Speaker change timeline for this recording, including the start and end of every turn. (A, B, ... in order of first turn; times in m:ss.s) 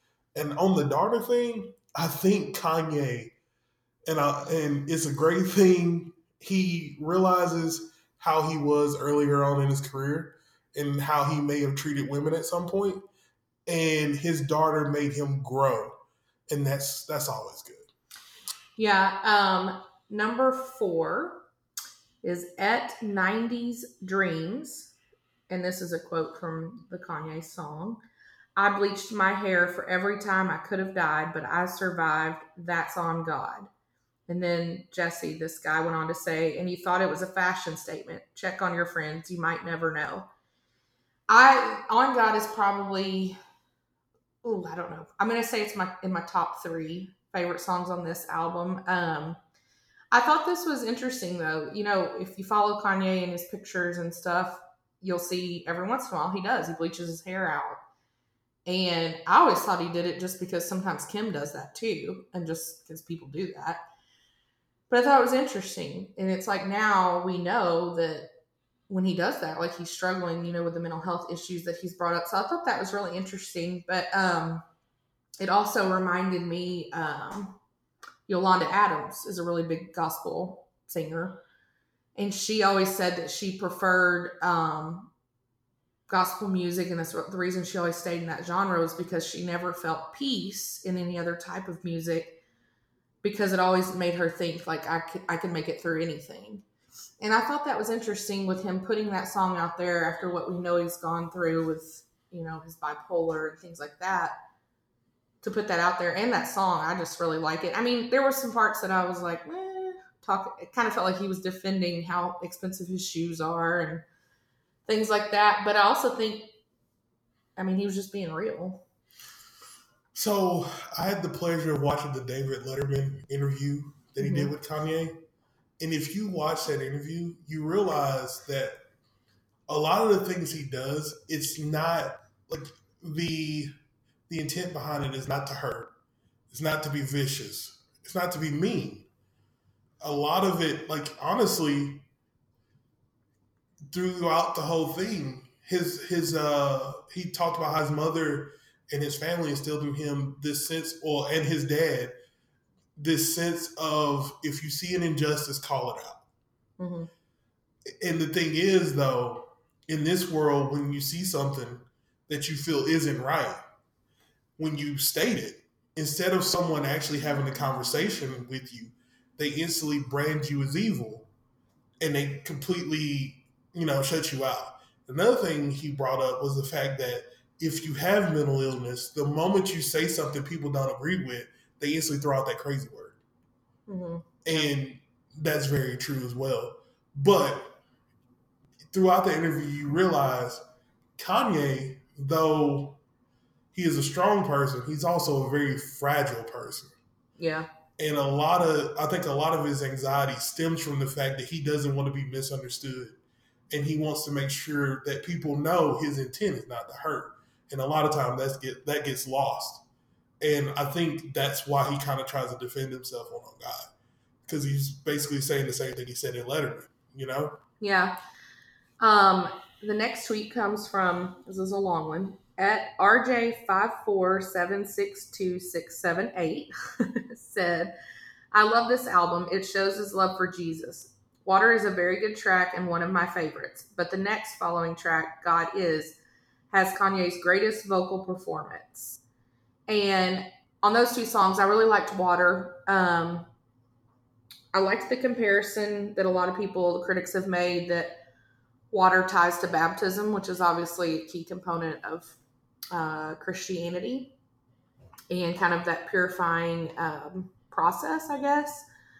0:00.3-0:03.3 A
0:04.1-0:13.0 A
0:13.7-0:16.0 A
0:16.5-0:17.8 A
0:18.8-0:21.4 B
0:22.2-0:24.9 B
0:25.5-0:28.0 B
0:28.6-0:33.7 B
0:34.3-0:40.3 B
0:41.3-0:43.4 B
0:44.4-0:49.4 B
0:50.1-0:57.8 B
0:58.6-1:03.8 B
1:04.9-1:08.3 B
1:08.9-1:14.6 B
1:15.4-1:17.6 B
1:18.3-1:21.4 B
1:22.2-1:25.1 B
1:26.1-1:32.4 B
1:33.2-1:36.6 B
1:37.2-1:44.4 B
1:45.4-1:54.0 B
1:54.9-1:56.5 B
1:57.6-1:58.8 B
2:00.1-2:05.2 A
2:04.2-2:04.5 B
2:05.8-2:08.8 A
2:09.7-2:13.7 A
2:14.3-2:15.9 A
2:16.5-2:19.1 A
2:20.0-2:22.1 A
2:23.9-2:32.1 A
2:33.0-2:36.2 A
2:36.8-2:37.1 B
2:37.9-2:43.6 A
2:44.6-2:51.3 A
2:52.0-3:03.2 A
3:03.9-3:04.7 B
3:04.4-3:07.8 A
3:08.9-3:10.6 A
3:11.2-3:13.0 A
3:13.7-3:16.9 A
3:17.4-3:17.7 B
3:18.0-3:23.2 A
3:23.7-3:29.8 A
3:30.4-3:33.9 A
3:34.5-3:37.6 A
3:37.8-3:38.2 B
3:39.0-3:47.9 B
3:48.5-3:56.2 B
3:56.7-3:59.2 B
3:59.9-4:03.5 B
4:04.7-4:08.2 B
4:08.9-4:12.4 B
4:12.9-4:14.3 B
4:15.3-4:18.8 B